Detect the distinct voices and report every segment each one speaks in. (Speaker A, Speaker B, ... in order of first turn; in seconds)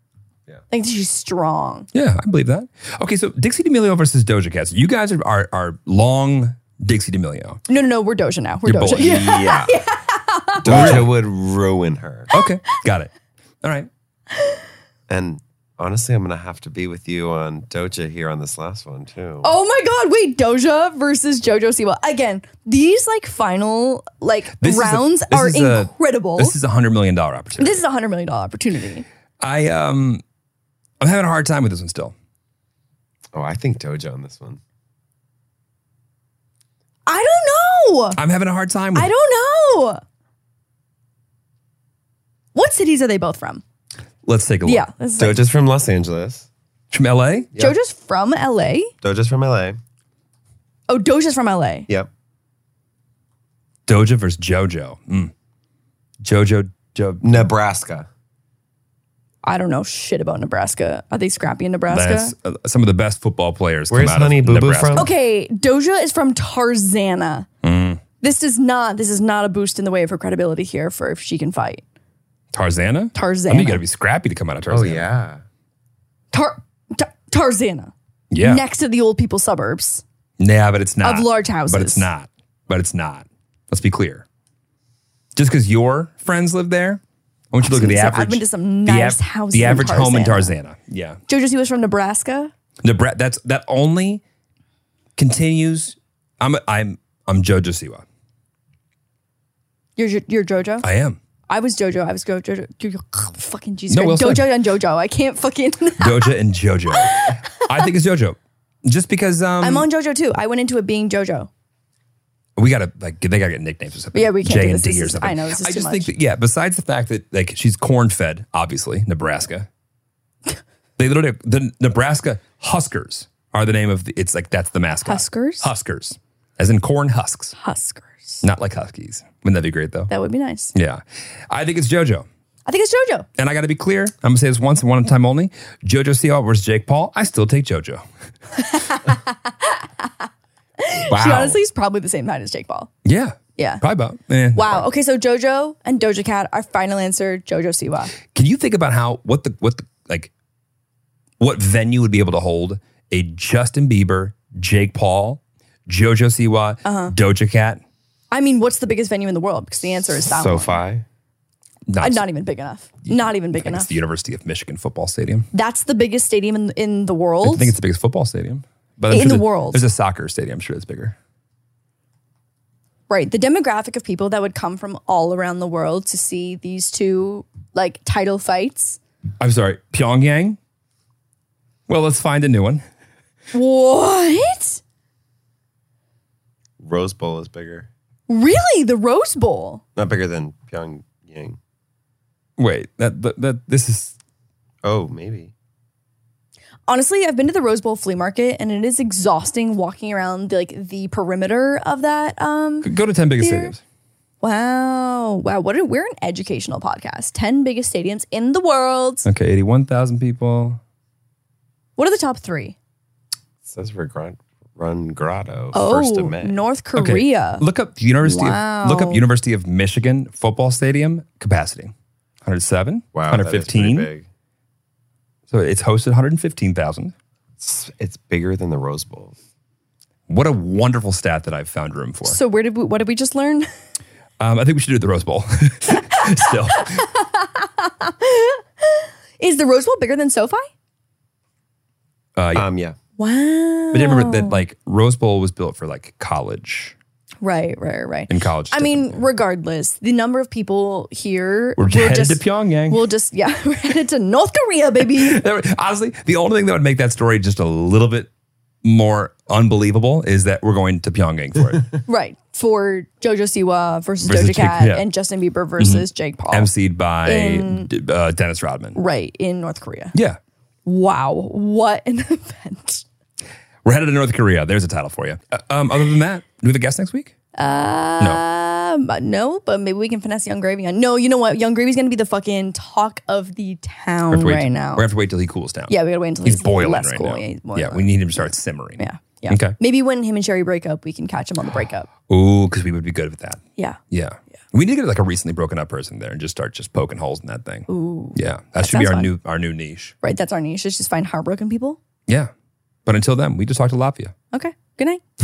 Speaker A: 0.7-1.9, 7.7-11.1, 19.4-26.5, 27.6-29.0, 37.1-38.2, 38.9-40.0, 42.5-43.6, 44.6-45.5, 47.6-48.9, 50.9-51.9, 59.4-62.3, 64.9-67.5, 68.2-71.8, 73.1-73.8, 76.3-80.0, 81.0-82.1, 87.6-90.5, 91.3-92.5, 100.0-100.9, 101.5-106.3, 106.9-107.4, 109.6-111.5, 114.1-116.1, 125.0-125.7, 127.5-128.4, 130.1-130.7, 132.7-133.3, 140.8-142.9, 143.6-143.8, 144.5-148.1, 156.8-157.1, 158.3-160.8, 162.0-163.9, 165.5-167.7, 169.1-169.8, 173.1-179.0, 183.5-184.8, 188.3-189.8, 196.9-203.7, 204.4-209.2, 212.0-212.8, 215.7-217.6, 218.2-219.2, 232.2-233.7, 236.9-240.7, 243.2-244.6, 247.4-255.4, 262.1-266.7, 267.2-267.9, 268.9-270.1, 270.9-273.0, 277.6-285.0, 285.9-292.1, 297.9-299.3, 300.2-302.0, 304.5-305.2
Speaker B: 1.9-7.6, 8.7-9.5, 10.7-11.1, 12.3-13.1, 13.6-13.9, 24.6-27.8, 29.4-30.2, 31.0-32.1, 38.1-39.1, 44.2-44.9, 46.9-47.5, 53.9-55.3, 56.2-57.5, 61.9-65.1, 67.6-68.0, 72.5-75.1, 78.3-78.6, 80.4-84.2, 85.3-87.0, 87.5-91.2, 92.8-94.2, 95.2-98.0, 100.8-101.2, 103.9-104.5, 106.0-109.9, 112.6-119.7, 121.0-127.5, 128.4-130.1, 130.7-132.2, 133.4-138.0, 143.0-144.8, 148.3-150.3, 151.4-157.8, 161.9-162.2, 163.1-165.5, 167.4-171.1, 179.4-180.6, 181.9-182.8, 192.6-194.1, 202.8-203.8, 209.2-210.8, 216.9-221.9, 222.4-224.1, 225.5-227.1, 230.3-232.4, 234.4-237.1, 242.3-242.7, 243.9-246.9, 248.3-249.2, 251.8-253.0, 255.2-258.3, 258.8-261.9, 264.2-265.0, 265.8-269.0, 273.8-277.3, 284.3-289.7, 292.3-300.1, 303.1-304.3
Speaker C: 9.0-9.7, 10.6-12.3, 15.1-19.5, 33.3-34.6, 45.2-46.5, 49.0-49.8, 57.2-58.1, 63.9-65.1, 74.7-75.4, 141.1-141.6, 160.2-161.0, 186.8-187.9, 189.9-191.6, 194.8-195.5, 213.6-216.6, 223.1-224.2, 227.6-229.3, 242.5-242.9